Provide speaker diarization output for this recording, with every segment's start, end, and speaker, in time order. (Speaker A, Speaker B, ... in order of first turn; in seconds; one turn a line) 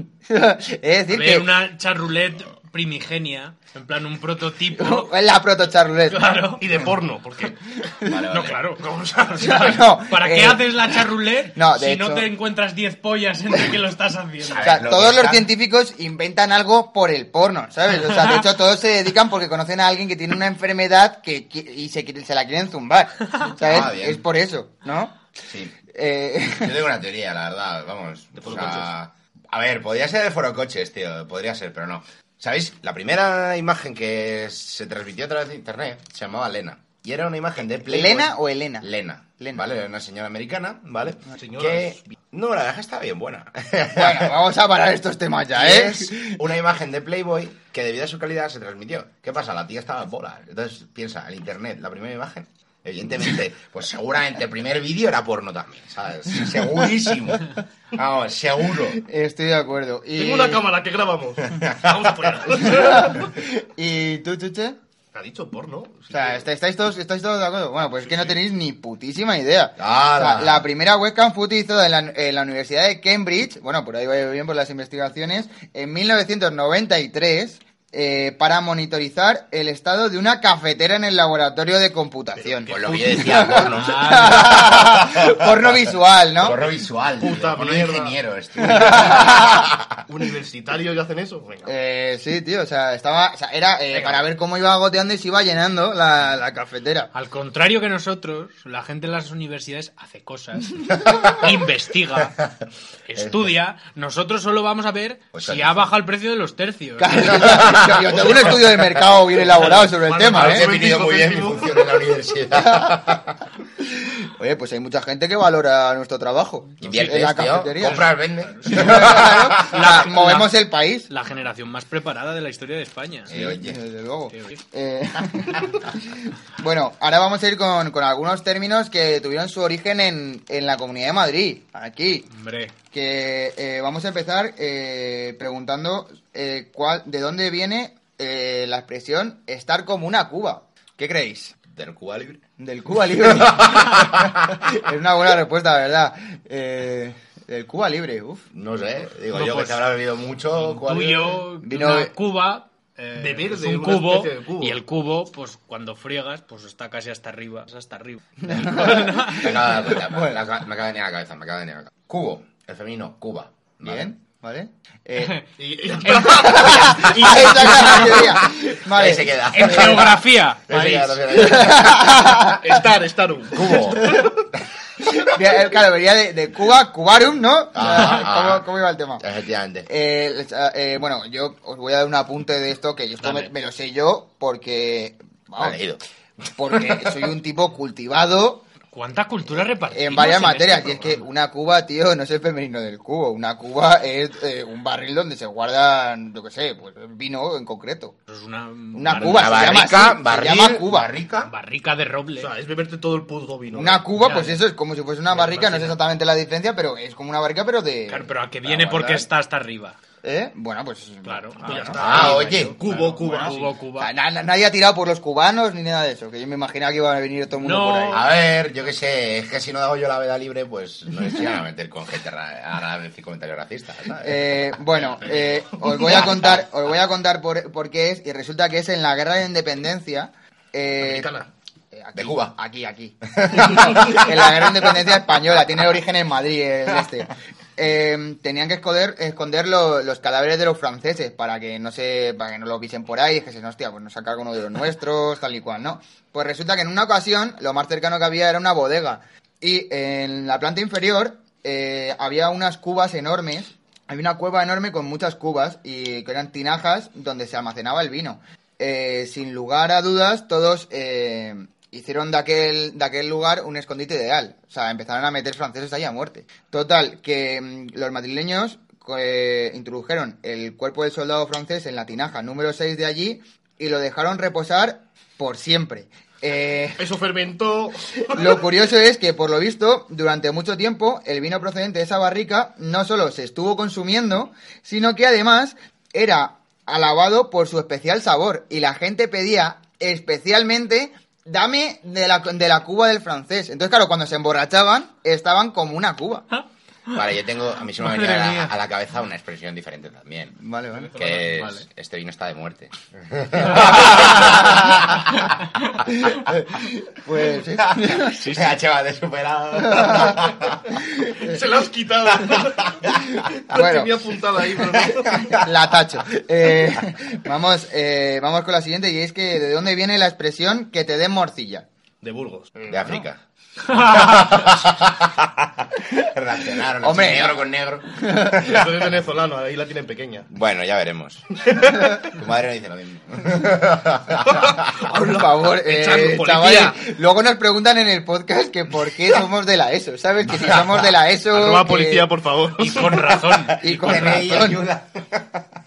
Speaker A: 0.3-1.5
Speaker B: 1.1-5.1
Speaker A: 4.8-6.3
Speaker B: 6.1-6.6
Speaker C: 6.6-7.8
Speaker D: 8.0-8.6
Speaker B: 8.3-14.7
Speaker A: 9.4-11.0
Speaker A: 11.5-12.3
Speaker D: 14.4-15.5
Speaker A: 14.6-25.2
Speaker B: 18.1-18.4
Speaker D: 23.6-24.2
Speaker D: 25.5-25.8
Speaker A: 25.9-26.8
Speaker D: 26.6-44.4
Speaker C: 28.4-28.9
Speaker A: 37.8-38.9
Speaker A: 39.4-39.7
Speaker C: 41.3-42.0
Speaker A: 43.9-46.4
Speaker D: 45.5-59.0
Speaker A: 59.0-60.6
Speaker C: 60.2-63.3
Speaker D: 61.5-62.4
Speaker A: 62.6-64.8
Speaker C: 65.1-66.5
Speaker A: 66.1-86.6
Speaker C: 68.0-68.4
Speaker D: 69.8-70.7
Speaker C: 82.4-83.2
Speaker D: 82.7-90.0
Speaker B: 83.5-84.8
Speaker C: 87.2-88.2
Speaker A: 88.6-89.7
Speaker C: 90.1-91.7
Speaker A: 91.7-97.1
Speaker C: 93.9-94.2
Speaker B: 97.1-102.4
Speaker D: 100.9-101.5
Speaker B: 103.1-107.8
Speaker D: 105.3-105.9
Speaker A: 107.0-110.7
Speaker D: 107.3-109.1
Speaker C: 109.6-111.9
Speaker D: 110.3-113.4
Speaker A: 112.6-113.0
Speaker A: 113.9-118.1
Speaker D: 116.8-119.9
Speaker B: 116.8-123.3
Speaker A: 118.7-121.1
Speaker D: 123.3-123.8
Speaker A: 123.3-132.3
Speaker B: 124.3-124.6
Speaker B: 132.3-132.8
Speaker A: 132.9-141.6
Speaker D: 141.7-142.4
Speaker A: 142.6-148.5
Speaker D: 143.2-144.7
Speaker D: 148.5-151.4
Speaker B: 149.3-149.8
Speaker B: 150.6-159.7
Speaker A: 151.6-152.1
Speaker C: 153.2-154.8
Speaker A: 158.4-160.4
Speaker D: 159.3-164.1
Speaker A: 163.8-165.4
Speaker C: 165.6-167.3
Speaker A: 166.1-170.0
Speaker D: 166.6-172.4
Speaker B: 169.5-171.5
Speaker A: 171.3-172.6
Speaker C: 172.4-174.4
Speaker D: 173.5-174.6
Speaker A: 175.1-179.2
Speaker D: 177.7-178.7
Speaker D: 179.2-179.9
Speaker A: 179.9-185.8
Speaker D: 185.6-186.0
Speaker A: 186.6-188.7
Speaker D: 186.7-187.2
Speaker B: 188.9-191.2
Speaker A: 189.9-198.2
Speaker B: 198.3-199.7
Speaker A: 198.9-201.1
Speaker D: 199.1-201.5
Speaker B: 201.4-202.5
Speaker C: 202.4-204.1
Speaker A: 203.7-209.3
Speaker B: 204.2-204.6
Speaker C: 205.3-206.0
Speaker B: 208.1-210.0
Speaker A: 210.2-218.2
Speaker B: 211.2-214.1
Speaker C: 211.6-213.7
Speaker D: 212.0-212.8
Speaker B: 217.6-218.3
Speaker D: 218.1-226.6
Speaker A: 224.2-231.3
Speaker C: 225.9-226.5
Speaker C: 231.0-231.5
Speaker A: 231.9-277.0
Speaker D: 232.2-232.6
Speaker D: 233.3-234.9
Speaker C: 277.0-278.6
Speaker A: 278.3-296.5
Speaker D: 297.1-300.6
Speaker B: 298.0-298.7
Speaker A: 300.6-301.1
Speaker D: 301.1-305.5
Speaker B: 301.2-301.9
Speaker B: 303.8-304.6
Speaker A: 304.2-305.0
Speaker A: 306.1-308.4
Speaker D: 307.6-310.9
Speaker B: 308.3-308.8
Speaker A: 309.8-311.6
Speaker C: 311.4-315.6
Speaker D: 312.4-313.3
Speaker A: 313.3-314.2
Speaker D: 314.9-315.7
Speaker A: 315.5-321.9
Speaker C: 322.2-322.8
Speaker D: 322.9-329.1
Speaker B: 324.0-324.3
Speaker A: 327.0-328.8
Speaker C: 328.6-330.5
Speaker D: 330.5-331.5
Speaker C: 331.6-332.2
Speaker D: 332.2-334.9
Speaker C: 334.4-337.0
Speaker A: 335.0-342.3
Speaker C: 341.5-343.4
Speaker B: 342.8-344.6
Speaker D: 343.7-345.7
Speaker A: 343.8-344.8